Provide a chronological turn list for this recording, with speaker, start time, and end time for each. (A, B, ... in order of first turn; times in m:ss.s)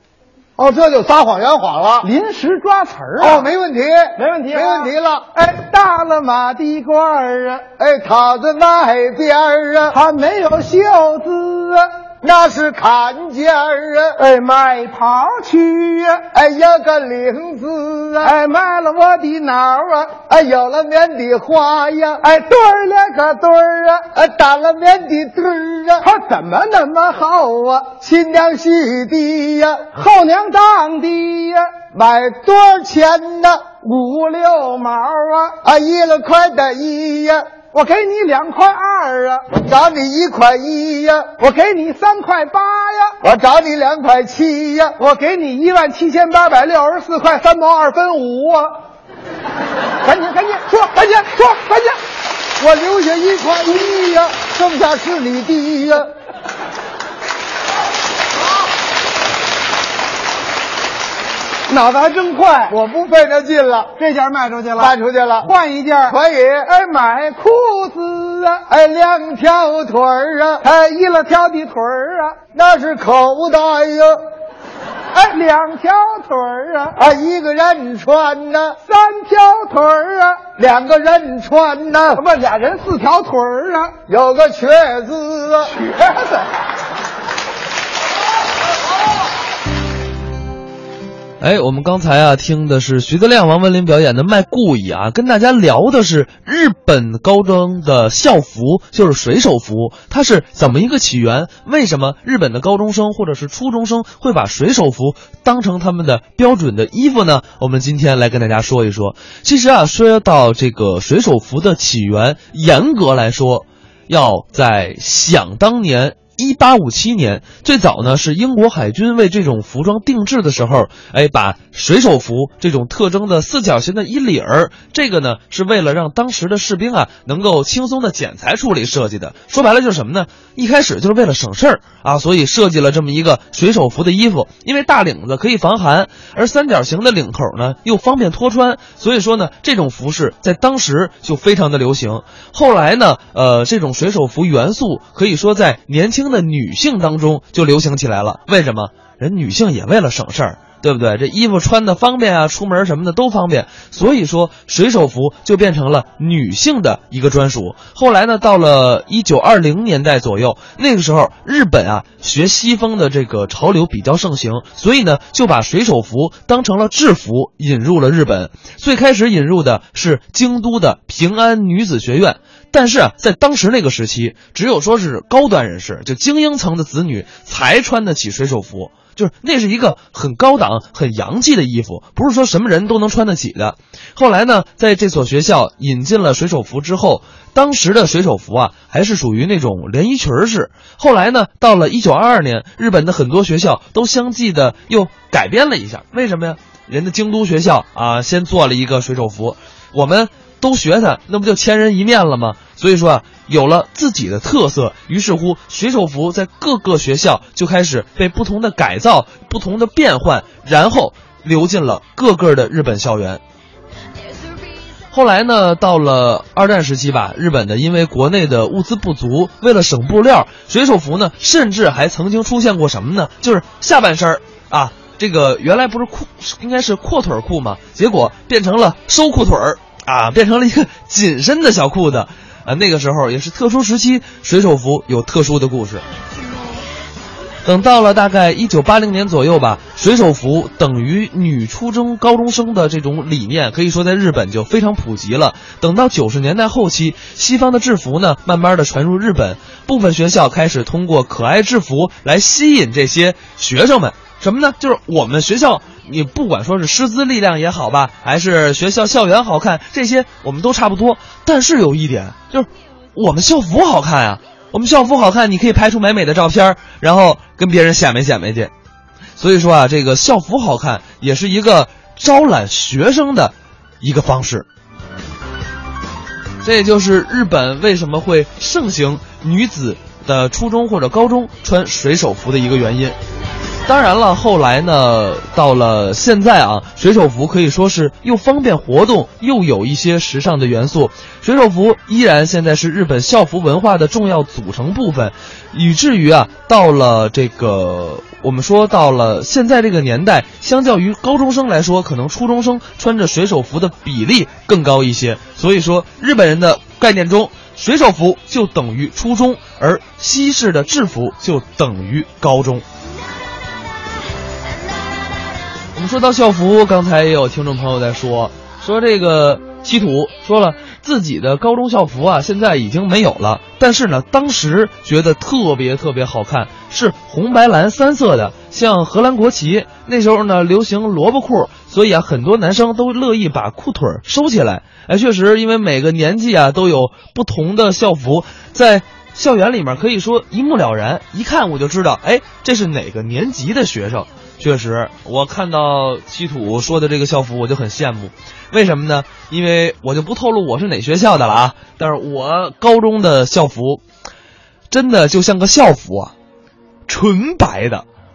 0:00.6-0:02.1 A
0:02.0-0:03.5 B
0:03.2-0:05.3 A
0:04.2-0:07.6 B
0:07.8-0:10.0 A
0:09.9-0:11.9 B
0:12.2-0:14.2 A
0:14.2-0:16.2 B
0:16.3-0:18.3 A
0:18.2-0:20.2 B
0:20.3-0:22.2 A
0:22.2-0:24.1 B
0:24.1-0:26.0 A
0:26.0-0:27.9 B
0:28.0-0:29.8 A
0:29.9-0:31.7 B
0:31.9-0:33.6 A
0:33.8-0:35.6 B
0:35.6-0:37.4 A
0:37.7-0:39.5 B
0:39.5-0:41.3 A
0:41.4-0:43.2 B
0:43.2-0:45.0 A
0:45.0-0:48.8 B
0:50.0-0:52.0 B
0:52.6-0:56.1 A
1:01.7-1:02.8 B
1:02.7-1:03.9 A
1:04.0-1:08.6 B
1:04.8-1:05.5 A
1:06.0-1:06.7 A
1:08.7-1:10.6 A
1:10.6-1:12.4 B
1:12.5-1:14.2 A
1:15.1-1:17.0 B
1:17.0-1:18.8 A
1:18.8-1:20.4 B
1:20.6-1:22.2 A
1:22.2-1:23.9 B
1:24.1-1:25.8 A
1:25.8-1:26.5 B
1:31.4-3:33.4 C
3:35.1-3:56.0 C
3:57.6-4:28.7 C
4:29.4-4:34.7 C
4:36.6-4:43.2 C
4:43.8-5:12.8 C
5:15.9-5:54.0 C
5:54.9-5:56.3 C
5:57.1-5:58.0 C